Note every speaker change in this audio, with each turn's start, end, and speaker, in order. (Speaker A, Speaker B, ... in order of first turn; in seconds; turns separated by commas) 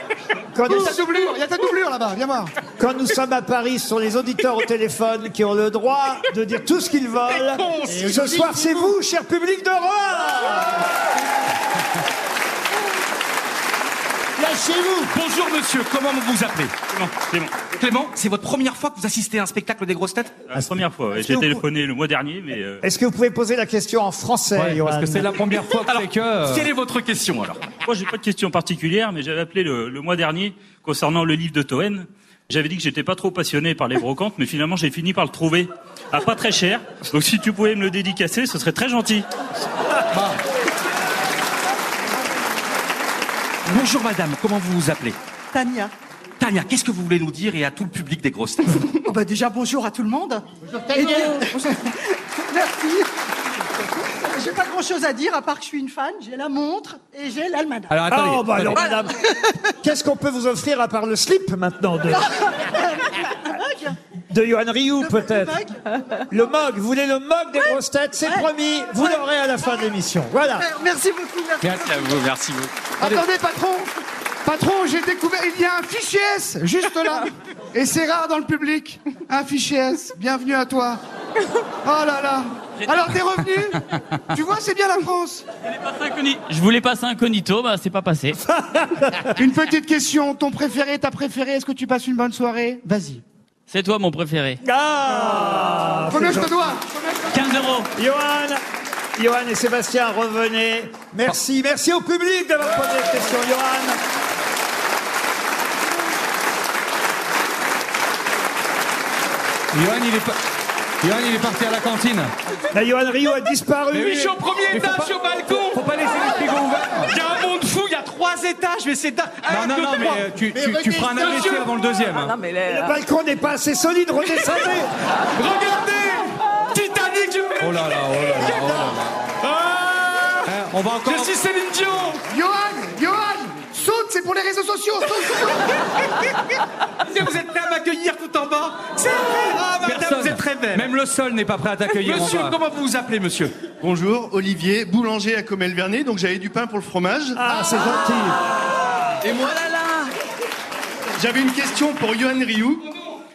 Speaker A: 0.5-1.0, Speaker B: 0.7-2.5, Speaker A: 2.8-10.9, Speaker C: 7.4-8.0, Speaker A: 14.4-15.2, Speaker C: 15.1-16.7, Speaker D: 16.9-17.5, Speaker C: 17.7-20.3, Speaker D: 20.5-22.8, Speaker A: 20.5-21.6, Speaker A: 22.8-25.3, Speaker E: 24.6-26.7, Speaker C: 25.8-27.6, Speaker D: 27.9-39.2, Speaker C: 43.6-45.2, Speaker F: 45.5-45.9, Speaker C: 46.4-48.7, Speaker F: 49.0-53.1, Speaker F: 54.1-57.9, Speaker E: 57.9-58.8, Speaker A: 58.1-62.3, Speaker F: 62.6-64.0, Speaker A: 64.3-65.6, Speaker F: 65.0-65.8, Speaker A: 66.3-70.7, Speaker F: 70.6-72.3, Speaker C: 71.6-73.2, Speaker B: 73.0-73.9, Speaker B: 74.4-81.0, Speaker B: 81.8-83.8, Speaker B: 84.3-85.4, Speaker G: 85.9-88.3, Speaker A: 88.5-89.3, Speaker B: 89.4-93.2, Speaker G: 93.7-94.6, Speaker A: 94.6-96.6, Speaker B: 96.1-97.5, Speaker A: 97.9-98.6, Speaker A: 99.2-104.0, Speaker E: 109.7-110.3, Speaker E: 111.0-112.3, Speaker A: 112.7-114.4, Speaker E: 113.9-117.1, Speaker C: 114.2-115.7, Speaker C: 117.1-121.6, Speaker E: 119.5-122.4, Speaker A: 122.6-124.9, Speaker C: 125.5-127.5, Speaker E: 127.6-129.1, Speaker E: 130.4-131.3, Speaker C: 131.1-132.2, Speaker B: 132.3-135.7, Speaker C: 137.1-140.9, Speaker E: 139.8-142.6, Speaker C: 142.0-143.5, Speaker H: 143.8-147.4, Speaker A: 147.4-148.4, Speaker H: 149.3-149.7, Speaker H: 151.2-152.8